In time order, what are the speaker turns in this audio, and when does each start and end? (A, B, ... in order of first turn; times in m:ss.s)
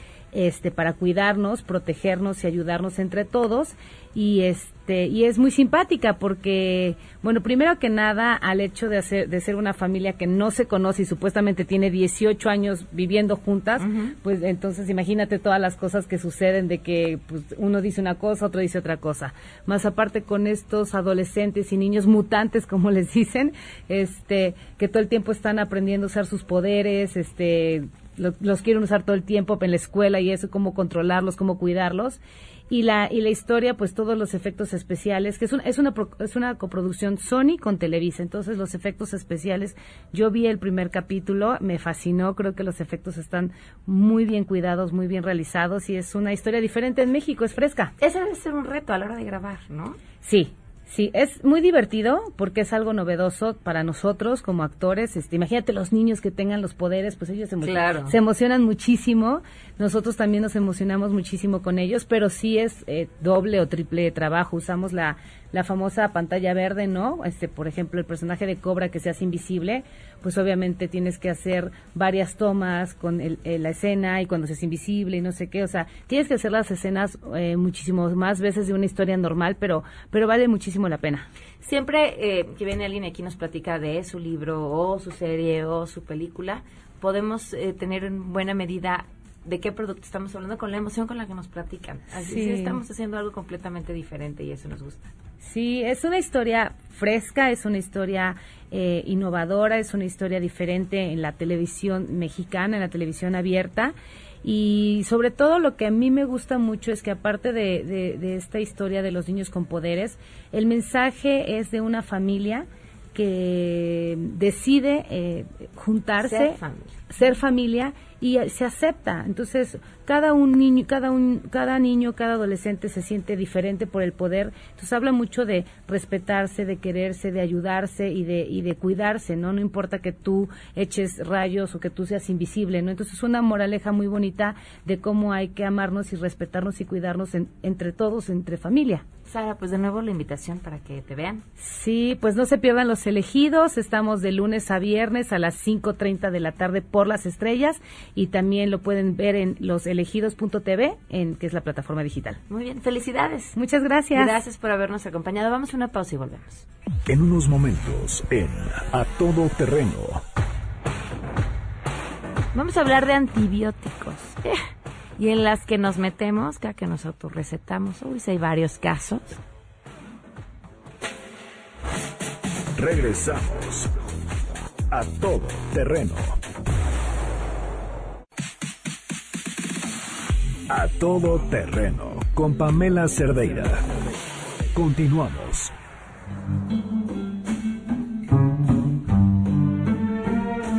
0:00.3-0:47.9 A
0:13.8-0:14.1 B
0:48.0-0:50.0 B
0:50.2-1:21.3 A
0:57.6-0:58.1 B
1:21.6-1:35.1 B
1:32.1-1:32.8 A
1:35.4-2:19.0 A
1:56.2-1:56.9 B
2:19.2-2:21.4 B
2:21.6-2:32.4 A
2:32.5-2:33.6 B
2:33.5-2:34.4 A
2:34.1-2:36.6 B
2:37.1-2:40.2 C
2:42.5-2:44.6 B
2:45.2-2:49.4 B
2:52.8-2:53.9 C
2:54.9-2:56.4 C
3:00.7-3:03.9 C
3:04.7-3:05.7 C